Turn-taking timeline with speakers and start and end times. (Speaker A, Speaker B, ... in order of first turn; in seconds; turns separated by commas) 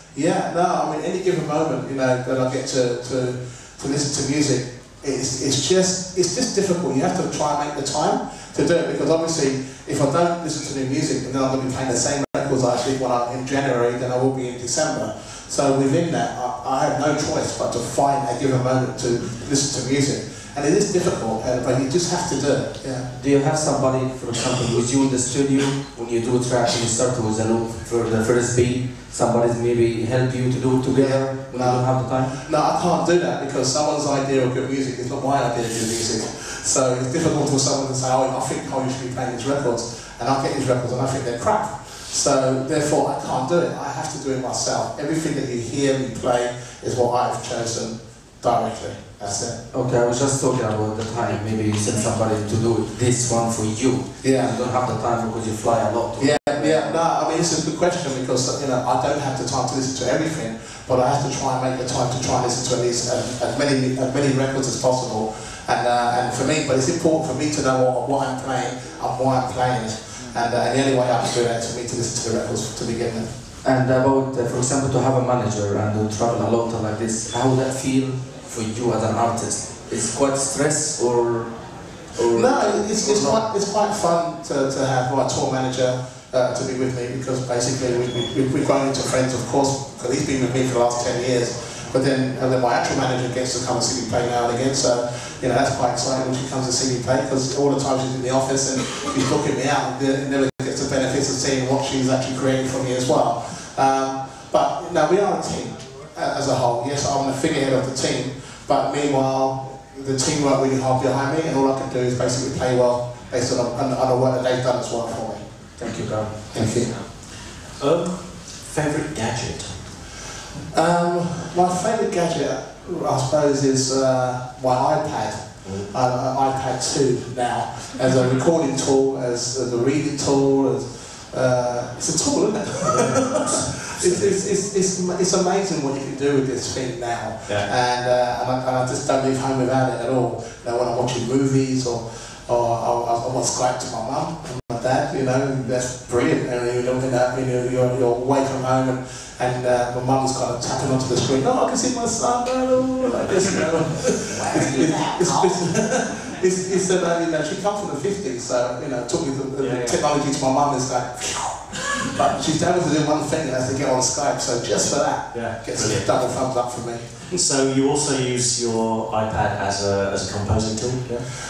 Speaker A: 0.1-23.1, Speaker B: 23.1-32.4, Speaker A: 30.9-49.6, Speaker B: 49.7-57.0, Speaker A: 54.2-54.6, Speaker A: 56.2-73.3, Speaker B: 73.6-83.5, Speaker A: 82.3-115.5, Speaker B: 115.8-117.0, Speaker A: 116.5-117.0, Speaker C: 117.2-119.9, Speaker A: 120.7-167.4, Speaker C: 125.6-125.9, Speaker C: 132.8-134.4, Speaker C: 154.3-155.0, Speaker B: 154.5-155.3, Speaker C: 159.6-160.0, Speaker C: 165.3-171.3